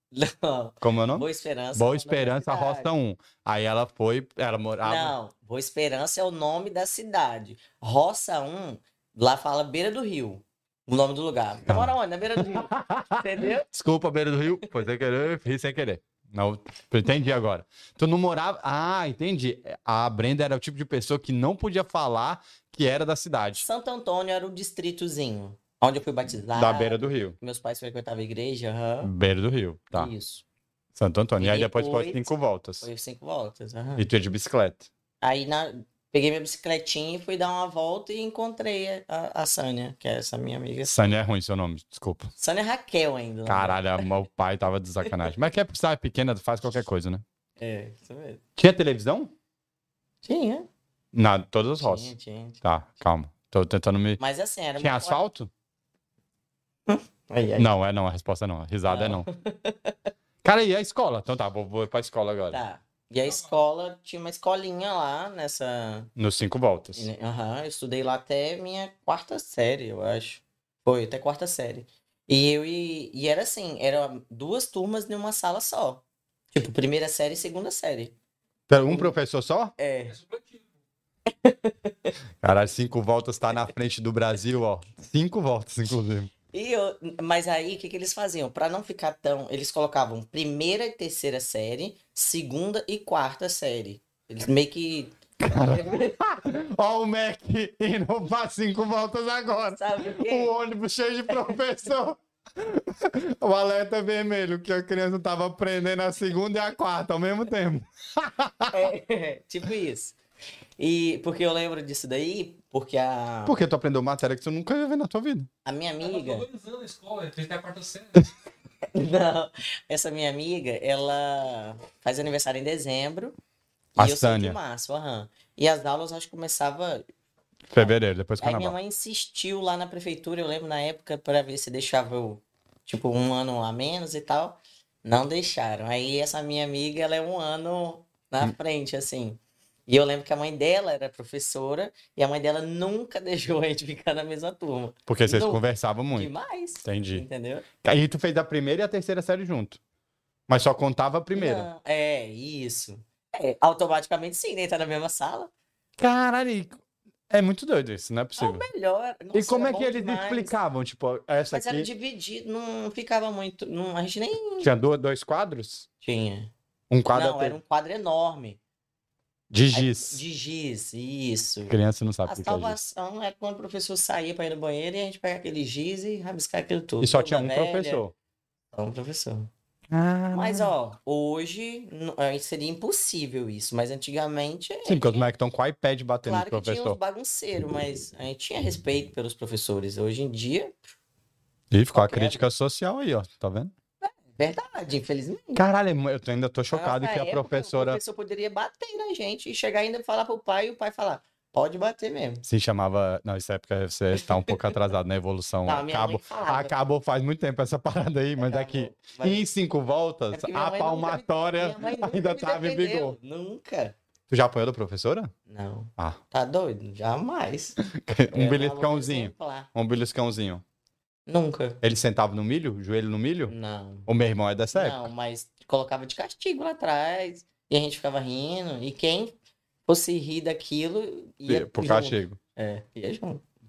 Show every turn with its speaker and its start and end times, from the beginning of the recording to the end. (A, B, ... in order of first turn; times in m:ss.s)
0:00.1-0:02.9 A
0:00.8-0:05.2 B
0:04.8-0:13.7 A
0:11.7-0:23.7 B
0:23.6-0:29.1 A
0:26.5-0:27.4 B
0:29.0-0:30.1 B
0:29.9-0:30.4 A
0:31.0-0:32.9 B
0:31.4-0:34.1 A
0:34.0-0:34.9 B
0:35.2-0:41.1 A
0:40.9-0:42.3 B
0:42.4-0:44.1 A
0:43.5-0:47.2 B
0:47.6-0:48.4 A
0:48.6-0:49.3 B
0:50.2-0:50.7 A
0:51.1-0:54.2 B
0:51.8-0:52.6 A
0:54.2-0:55.2 A
0:54.8-0:55.5 B
0:56.9-0:57.7 A
0:57.6-0:59.3 B
0:58.8-1:00.1 A
1:00.4-1:02.6 B
1:02.5-1:06.1 A
1:03.3-1:03.6 C
1:06.2-1:07.1 B
1:07.0-1:16.0 A
1:16.5-1:18.2 A
1:18.7-1:19.7 B
1:18.8-1:19.2 A
1:19.8-1:20.2 A
1:20.1-1:20.7 C
1:21.3-1:22.2 A
1:22.4-1:26.3 B
1:26.5-1:36.2 A
1:35.4-1:48.9 B
1:39.7-1:40.5 A
1:41.3-1:41.6 A
1:48.7-1:50.2 A
1:50.8-1:53.6 A
1:53.5-1:55.5 B
1:55.6-1:56.5 A
1:56.0-1:58.3 C
1:58.9-2:03.3 A
2:04.0-2:04.6 B
2:04.0-2:07.0 A
2:07.7-2:08.8 B
2:07.8-2:27.7 A
2:25.1-2:26.3 B
2:26.8-2:27.3 B
2:27.8-2:29.8 B
2:30.5-2:31.7 B
2:31.3-2:35.5 A
2:36.0-2:36.8 B
2:37.3-2:38.7 B
2:38.4-2:40.6 A
2:39.3-2:41.9 B
2:41.5-2:44.7 A
2:44.6-2:45.9 B
2:46.0-2:46.5 A
2:46.9-2:47.6 B
2:47.1-2:48.6 A
2:49.5-2:50.2 B
2:49.7-2:58.0 A
2:51.7-2:52.8 B
2:57.0-2:58.1 B
2:58.7-2:59.5 A
2:59.9-3:00.7 B
3:00.3-3:05.3 A
3:04.8-3:07.0 B
3:06.2-3:10.9 A
3:11.7-3:13.7 B
3:11.9-3:12.4 A
3:14.0-3:15.6 A
3:15.6-3:18.0 B
3:16.7-3:22.5 A
3:22.5-3:33.2 B
3:24.1-3:24.7 A
3:25.6-3:26.7 A
3:28.4-3:29.4 A
3:30.3-3:34.0 A
3:34.3-3:35.3 B
3:35.5-3:37.8 A
3:37.8-3:40.6 B
3:38.3-3:39.7 A
3:41.3-3:41.8 A
3:41.8-3:43.6 B
3:43.5-3:44.1 A
3:44.1-3:45.1 B
3:44.7-3:49.4 A
3:49.9-3:53.4 A
3:51.4-3:52.4 B